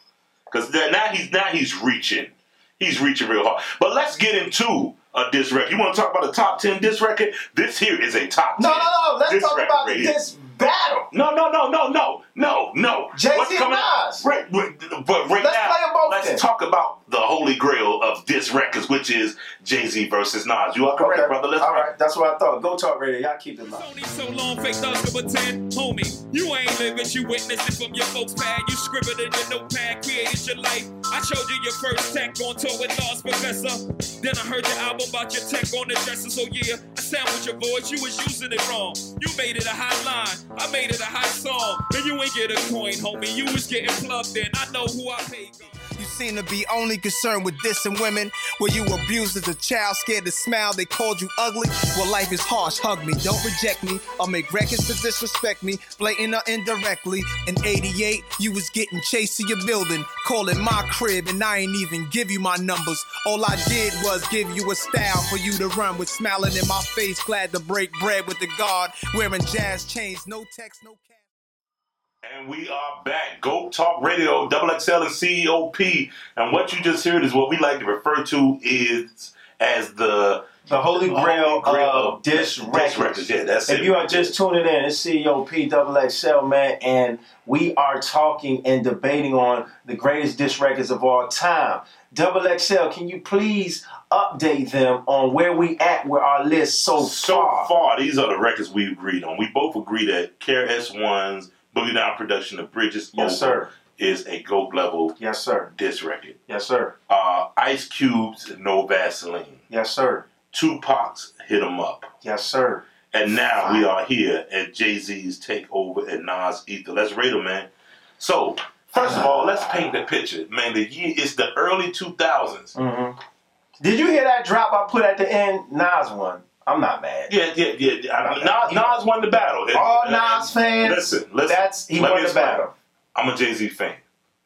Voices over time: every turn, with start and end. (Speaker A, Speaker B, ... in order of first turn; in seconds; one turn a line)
Speaker A: 0.5-10.1
Speaker B: 8.6-11.1
Speaker A: 11.1-21.9
Speaker B: 13.1-14.2
Speaker B: 15.4-16.4
Speaker B: 21.0-23.9
Speaker C: 23.7-45.9
Speaker D: 46.0-71.2
Speaker A: 72.2-84.3
Speaker B: 80.7-97.7
Speaker A: 97.0-105.2
Speaker B: 103.1-103.7
Speaker B: 105.2-105.7
Speaker A: 105.7-106.4
Speaker B: 106.5-106.9
Speaker A: 107.1-109.6
Speaker B: 109.7-110.2
Speaker A: 110.5-112.1
Speaker B: 112.2-112.8
Speaker A: 113.1-117.7
Speaker B: 113.6-113.9
Speaker A: 118.2-122.8
Speaker B: 119.0-119.8
Speaker B: 122.8-123.2
Speaker B: 123.8-127.3
Speaker A: 127.3-134.0
Speaker B: 128.2-129.0
Speaker B: 129.7-132.7